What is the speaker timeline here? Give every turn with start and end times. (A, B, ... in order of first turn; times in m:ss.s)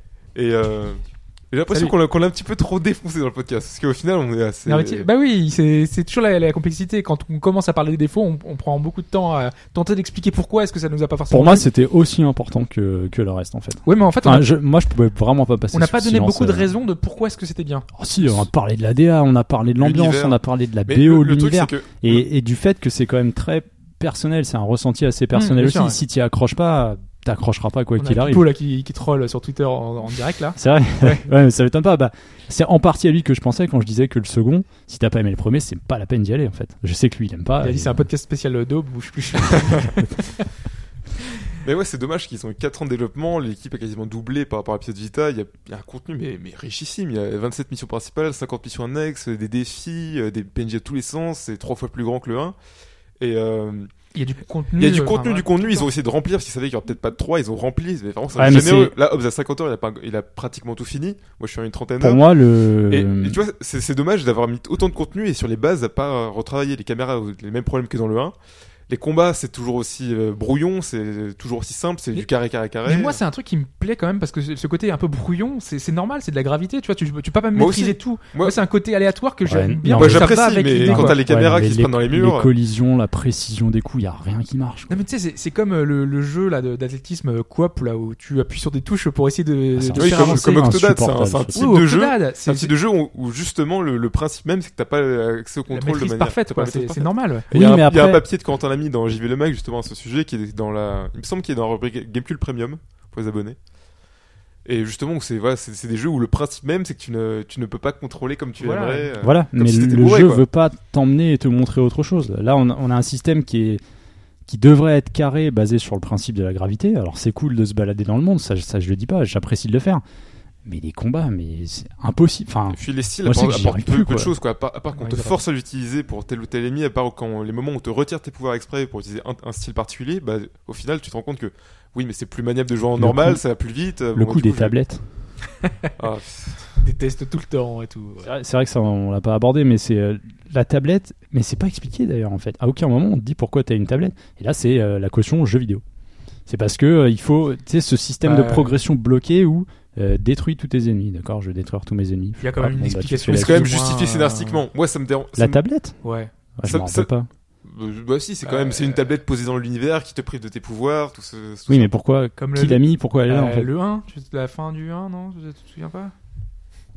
0:00.3-0:05.1 A
0:04.6-0:11.6 B
0:11.3-0:16.7 C
0:13.8-0:14.5 B
0:15.7-0:17.9 B
0:18.0-0:28.5 C
0:19.8-0:22.3 A
0:25.3-0:26.0 B
0:28.0-0:31.2 B
0:30.5-0:38.1 C
0:37.6-0:40.4 B
0:41.6-0:52.5 A
0:53.2-0:53.9 A
0:54.1-0:55.9 B
0:54.7-1:02.3 A
0:58.3-0:58.9 C
1:02.0-1:03.4 C
1:02.9-1:08.3 A
1:08.9-1:13.2 A
1:12.8-1:21.2 B
1:17.5-1:18.6 A
1:19.4-1:25.0 C
1:19.9-1:22.5 A
1:24.9-1:30.7 B
1:29.7-1:31.7 C
1:29.9-1:43.6 A
1:31.5-1:32.7 B
1:35.7-1:37.5 B
1:37.5-1:38.2 C
1:44.6-1:50.4 A
1:48.6-1:49.1 B
1:49.2-1:53.8 C
1:54.5-2:00.0 C
2:00.6-2:04.3 C
2:02.7-2:14.8 A
2:05.0-2:05.4 B
2:13.0-2:13.4 C
2:14.1-2:15.0 C
2:16.0-2:16.8 A
2:16.8-2:18.3 B
2:18.2-2:25.8 C
2:26.5-2:33.6 C
2:28.2-2:28.8 B
2:32.4-2:34.6 B
2:33.3-2:35.6 A
2:35.4-2:36.0 C
2:36.0-2:36.3 B
2:36.6-2:37.3 C
2:36.6-2:37.1 A
2:37.6-2:41.9 A
2:38.4-2:39.0 B
2:41.7-2:43.7 C
2:42.4-2:46.1 B